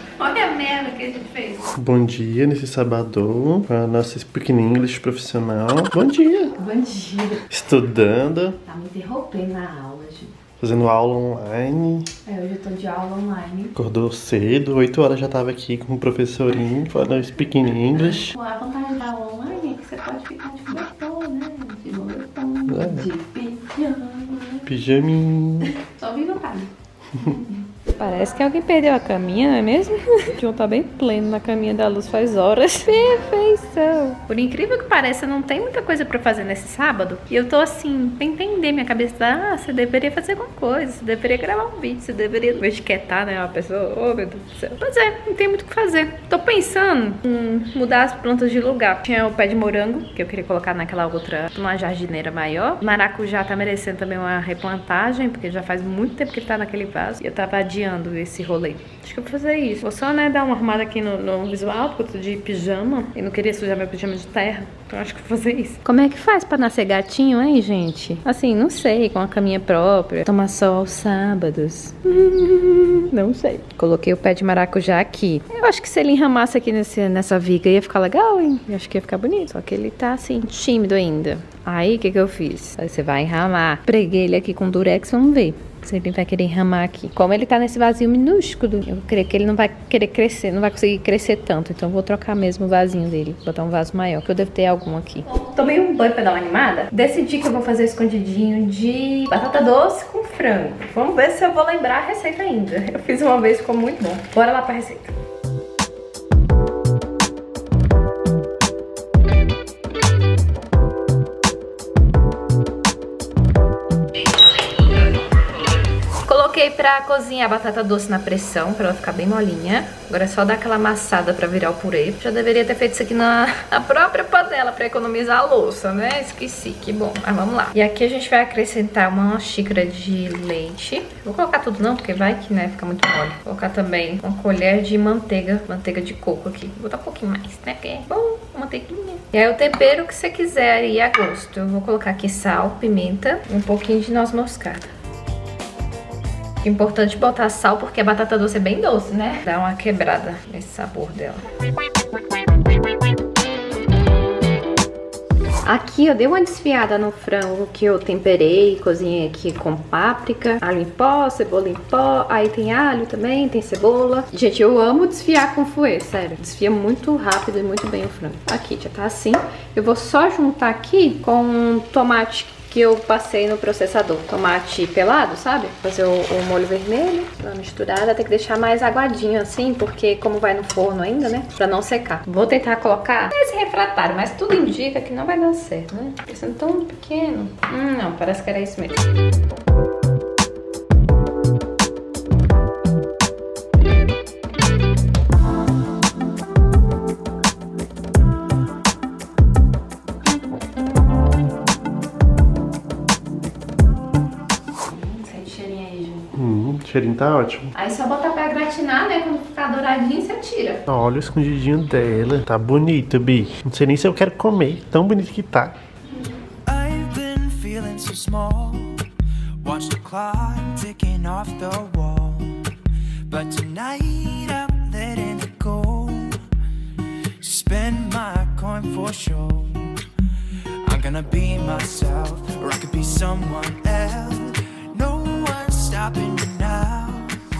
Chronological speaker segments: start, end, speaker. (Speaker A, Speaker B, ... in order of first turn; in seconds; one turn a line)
Speaker A: 0.2-1.7
Speaker B: 1.7-6.5
Speaker A: 6.5-7.5
Speaker B: 7.5-8.6
Speaker A: 8.6-10.4
Speaker B: 10.6-12.1
Speaker A: 12.2-13.7
Speaker B: 13.8-18.4
Speaker A: 18.0-24.7
Speaker B: 22.7-23.1
Speaker B: 24.6-25.7
Speaker A: 25.6-105.1
Speaker A: 116.2-144.9
Speaker A: 146.6-151.4
Speaker A: 155.6-189.0
Speaker A: 204.8-206.3
Speaker B: 206.3-207.7
Speaker A: 207.7-210.8
Speaker B: 210.9-215.8
Speaker C: 216.7-219.0
Speaker C: 219.6-222.7
Speaker C: 223.3-226.4
Speaker C: 227.4-229.8
Speaker C: 230.8-237.3